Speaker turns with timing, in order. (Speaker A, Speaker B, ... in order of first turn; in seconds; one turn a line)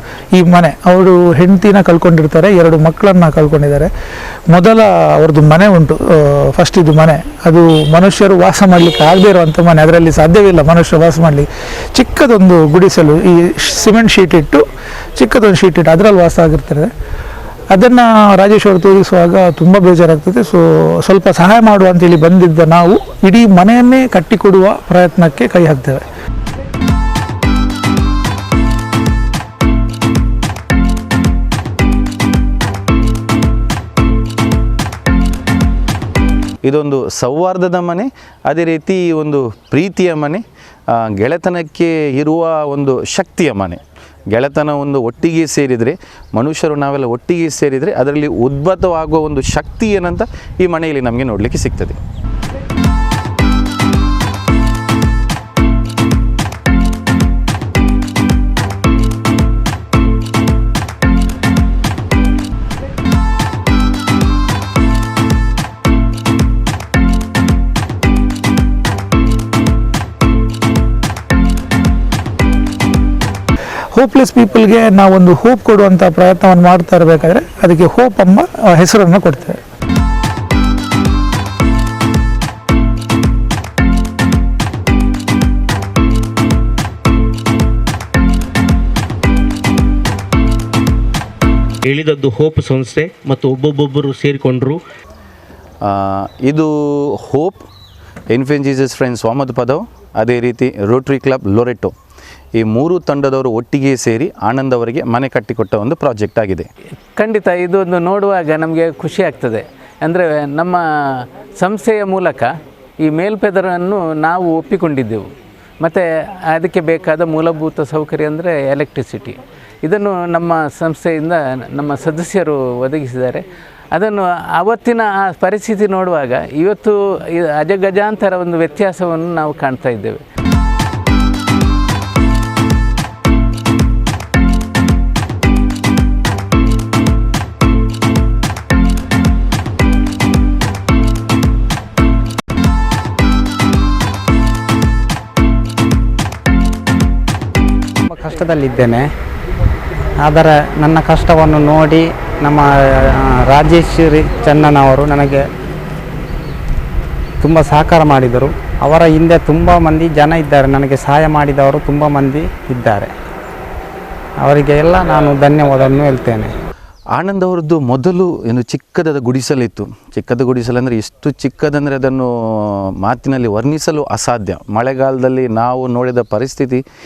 Speaker A: 0.3-3.9
Speaker A: 4.5-14.6
Speaker A: 15.2-16.9
Speaker A: 17.7-26.0
Speaker B: 36.6-43.8
Speaker B: 44.3-52.0
Speaker A: 73.9-79.6
Speaker C: 91.9-94.8
Speaker B: 95.8-97.6
Speaker B: 98.3-101.9
Speaker B: 102.5-106.7
Speaker D: 107.2-112.5
Speaker D: 113.0-115.3
Speaker D: 115.8-130.2
Speaker E: 148.1-149.1
Speaker E: 150.2-155.5
Speaker E: 157.4-163.1
Speaker E: 164.4-166.5
Speaker B: 167.1-176.8